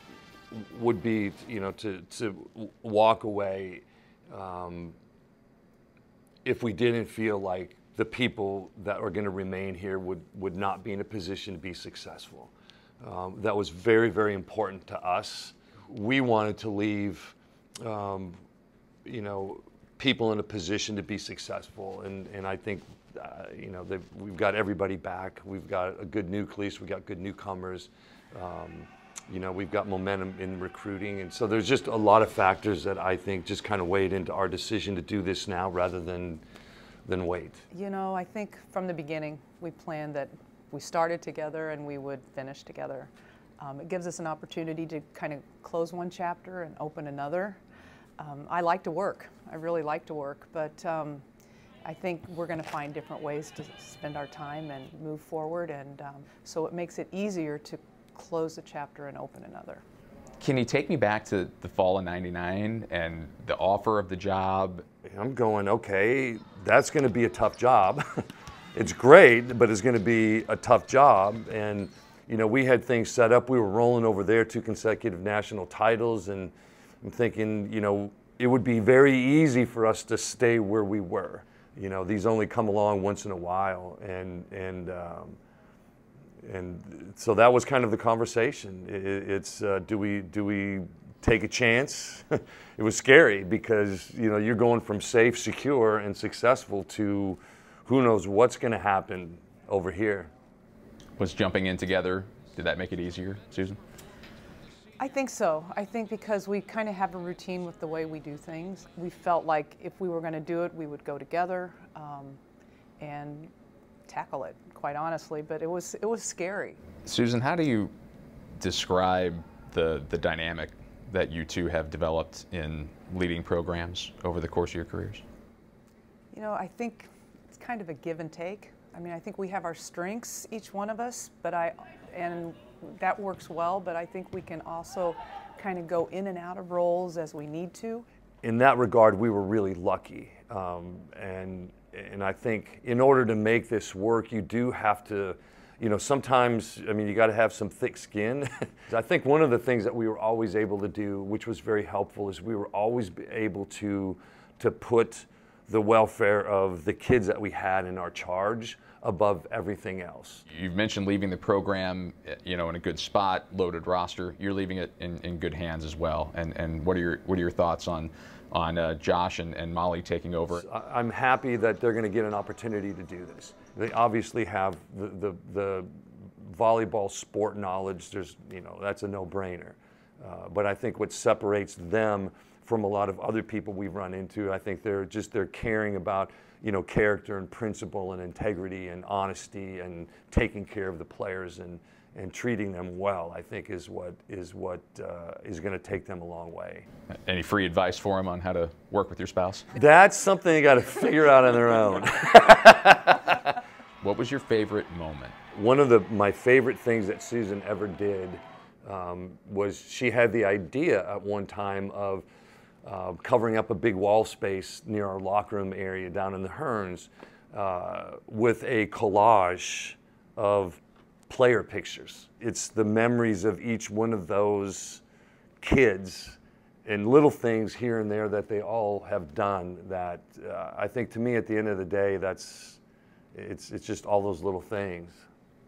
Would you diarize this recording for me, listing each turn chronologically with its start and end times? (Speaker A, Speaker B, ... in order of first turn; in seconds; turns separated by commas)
Speaker A: 0.5-5.0, Speaker A: 6.4-18.4, Speaker A: 19.0-36.4, Speaker A: 37.0-37.6, Speaker B: 37.7-47.6, Speaker B: 48.2-51.2, Speaker B: 51.8-59.8, Speaker C: 60.4-64.8, Speaker A: 65.0-68.0, Speaker A: 68.7-85.4, Speaker A: 86.4-100.3, Speaker C: 101.2-103.8, Speaker B: 105.0-112.4, Speaker B: 113.0-113.5, Speaker B: 114.0-116.8, Speaker C: 117.0-117.9, Speaker C: 118.6-125.2, Speaker B: 126.3-138.1, Speaker A: 138.4-160.4, Speaker C: 160.5-170.6, Speaker A: 170.5-196.8, Speaker C: 197.2-199.7, Speaker A: 199.7-203.5, Speaker C: 204.0-205.3, Speaker A: 205.5-212.3, Speaker A: 212.8-225.0, Speaker A: 225.6-232.8, Speaker A: 233.3-235.2